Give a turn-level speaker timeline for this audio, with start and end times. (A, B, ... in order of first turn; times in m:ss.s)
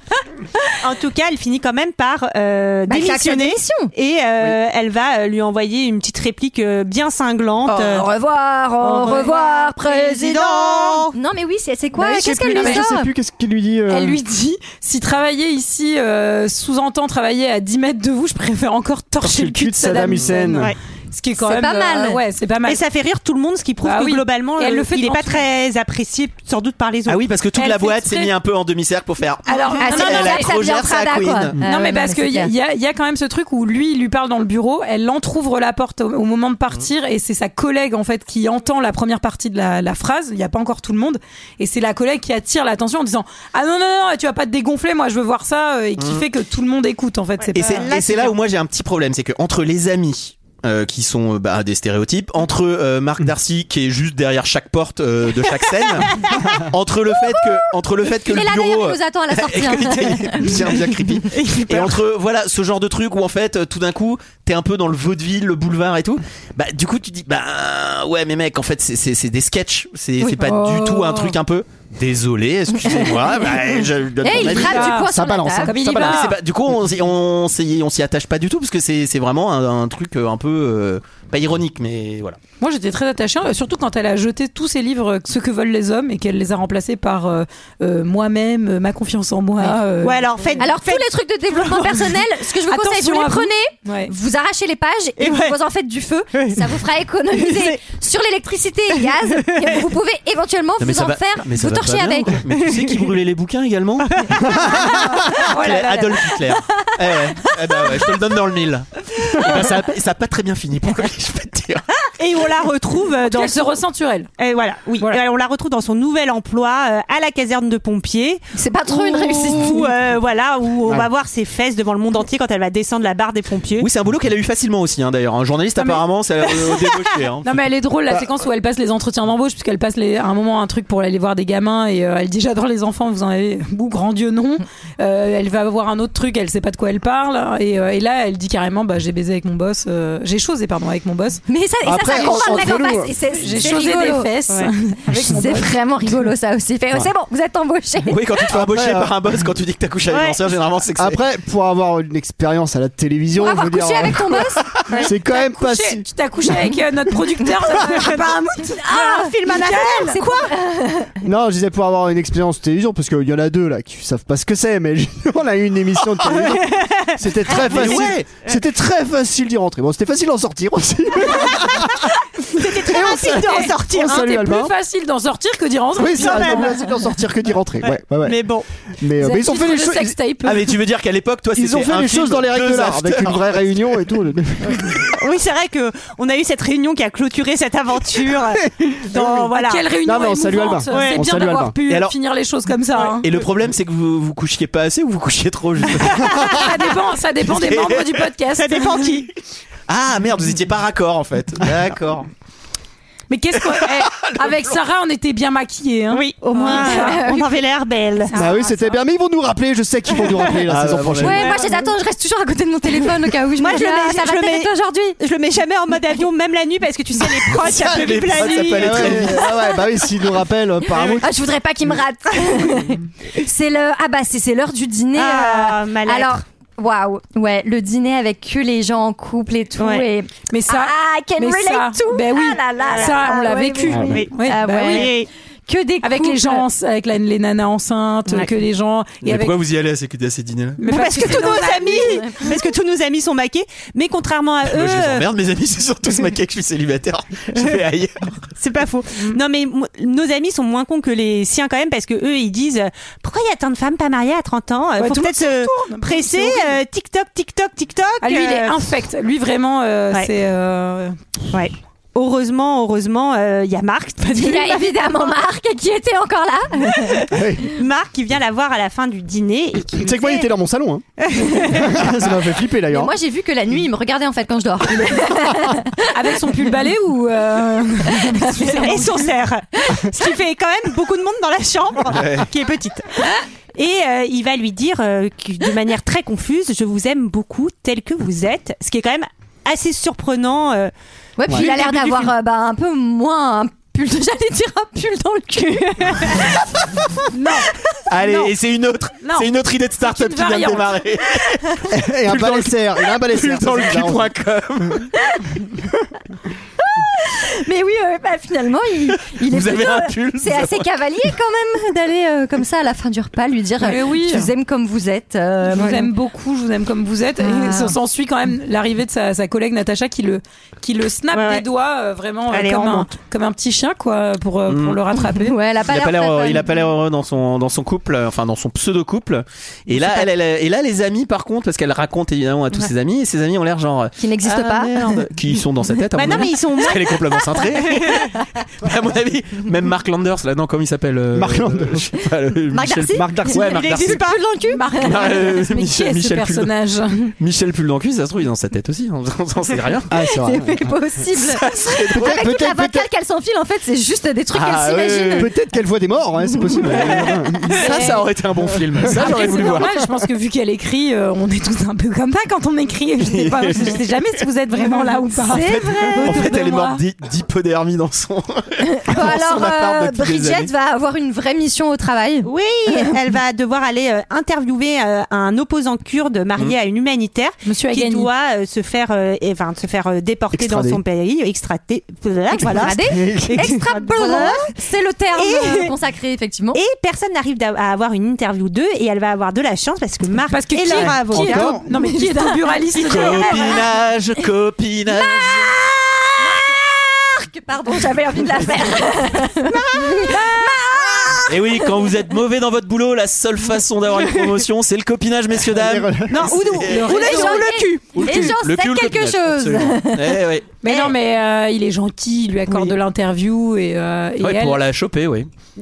0:00.8-0:08.1 A
0:02.9-0:03.9 B
0:07.7-0:13.1 B
0:08.8-0:11.1 A
0:12.0-0:12.9 C
0:12.1-0:14.2 D
0:13.9-0:22.8 C
0:19.2-0:20.7 D
0:21.4-0:22.2 B
0:22.6-0:27.2 A
0:23.8-0:25.4 C
0:27.1-0:31.6 E
0:27.6-0:28.3 C
0:29.4-0:30.6 C
0:29.8-0:32.5 B
0:31.6-0:47.9 C
0:46.0-0:46.2 E
0:47.4-0:48.4 A
0:47.5-1:15.0 E
0:58.2-1:00.8 B
1:01.3-1:02.0 A
1:10.2-1:11.4 C
1:14.2-1:16.2 B
1:14.3-1:15.1 C
1:15.1-1:15.7 D
1:15.6-1:16.3 C
1:15.8-1:22.4 E
1:22.6-1:30.6 C
1:30.0-1:32.0 A
1:30.6-1:42.4 B
1:32.7-1:34.1 C
1:35.2-1:35.6 A
1:36.3-1:36.8 A
1:37.3-1:37.8 A
1:38.9-1:39.8 A
1:40.8-1:51.8 E
1:42.5-1:43.1 A
1:44.0-1:44.4 A
1:44.5-1:44.7 D
1:44.8-1:46.3 C
1:52.2-1:53.8 A
1:53.3-1:54.3 C
1:54.4-2:03.9 A
1:58.5-1:59.9 B
2:03.8-2:07.6 E
2:05.8-2:06.0 C
2:07.4-2:21.4 C
2:21.5-2:24.3 B
2:21.8-2:23.1 D
2:22.2-2:25.7 C
2:25.1-2:28.5 B
2:28.0-2:31.2 E
2:28.5-2:29.1 D
2:30.1-2:30.4 A
2:31.0-2:36.0 D
2:33.4-2:34.7 B
2:34.9-2:40.2 C
2:37.8-2:38.3 A
2:38.0-2:41.2 B
2:38.8-2:40.5 A
2:41.2-2:52.1 D
2:46.3-2:48.6 A
2:47.5-2:48.3 E
2:52.5-2:54.2 A
2:52.6-2:54.7 D
2:53.2-2:56.8 C
2:56.0-2:58.4 D
2:56.2-2:56.7 A
2:57.8-2:58.6 A
2:59.0-3:00.2 D
2:59.2-3:00.8 C
3:00.4-3:03.8 E
3:01.5-3:05.0 D
3:05.2-3:09.8 A
3:08.8-3:09.5 D
3:09.5-3:13.3 C
3:10.0-3:11.8 D
3:10.9-3:11.2 A
3:11.8-3:12.1 E
3:13.2-3:16.9 E
3:16.3-3:19.2 C
3:17.4-3:18.3 E
3:18.6-3:19.3 A
3:19.9-3:22.3 E
3:23.3-3:27.3 C
3:23.7-3:24.8 E
3:26.1-3:28.3 A
3:26.6-3:27.5 B
3:28.3-3:29.0 C
3:28.3-3:31.5 D
3:30.7-3:31.5 E
3:31.2-3:35.2 B
3:31.4-3:31.7 A
3:33.6-3:39.4 A
3:37.8-3:41.3 D
3:37.8-3:39.5 E
3:39.4-3:39.8 B
3:41.0-3:56.6 B
3:45.1-3:46.4 A
3:49.8-3:50.1 A
3:50.5-3:55.1 C
3:52.8-3:53.2 A
3:53.9-3:54.2 D
3:54.1-3:55.3 A
3:56.0-3:59.6 C
3:59.2-4:00.8 E
4:00.8-4:02.4 C
4:00.9-4:05.2 A
4:04.6-4:08.4 E
4:08.6-4:18.8 A
4:15.0-4:16.8 C
4:18.2-4:21.1 C
4:21.5-4:25.3 A
4:24.3-4:27.4 B
4:27.3-4:27.7 D
4:27.8-4:30.4 A
4:30.0-4:33.1 D
4:31.2-4:31.9 A
4:32.9-4:36.6 B
4:36.1-4:39.3 C
4:38.1-4:38.9 B
4:38.7-4:50.9 A
4:42.1-4:42.5 E
4:51.4-4:56.8 B
4:51.5-4:52.3 A
4:57.3-4:57.7 C
4:58.1-5:05.1 E
4:59.2-5:01.0 C
5:01.9-5:04.3 D
5:06.8-5:16.1 B
5:09.1-5:10.9 E
5:13.8-5:14.5 C
5:15.7-5:25.6 C
5:17.4-5:18.0 B
5:21.3-5:21.6 A
5:22.5-5:23.1 A
5:24.7-5:25.0 E
5:25.2-5:26.8 B
5:25.8-5:44.3 E
5:34.2-5:35.2 B
5:36.1-5:38.3 A
5:41.3-5:42.0 D
5:42.8-5:44.8 A
5:43.1-5:44.2 D
5:44.7-5:47.3 C
5:45.0-5:46.7 E
5:47.4-5:50.1 E
5:50.1-5:50.9 D
5:50.2-5:55.5 B
5:51.4-5:52.5 E
5:52.1-5:53.1 D
5:54.5-5:55.5 E
5:55.3-5:57.9 D
5:56.5-5:57.1 B
5:57.0-6:00.0 E
5:57.8-5:58.2 C
5:58.6-5:59.1 D
5:59.1-6:07.0 C
6:03.2-6:04.0 E
6:05.5-6:10.7 E
6:08.9-6:13.1 B
6:12.4-6:24.7 A
6:17.6-6:18.3 C
6:20.5-6:21.0 D
6:22.6-6:26.8 B
6:22.6-6:23.7 D
6:25.3-6:25.9 A
6:26.7-6:31.7 A
6:30.5-6:33.8 C
6:30.9-6:31.8 D
6:31.9-6:33.9 B
6:33.0-6:35.8 E
6:35.2-6:42.1 B
6:39.7-6:40.5 A
6:41.5-6:47.6 E
6:45.7-6:46.7 D
6:46.3-6:48.0 A
6:46.9-6:47.6 C
6:47.0-6:50.4 B
6:48.1-6:50.7 E
6:50.8-6:54.8 C
6:50.8-6:51.1 A
6:54.4-6:55.5 E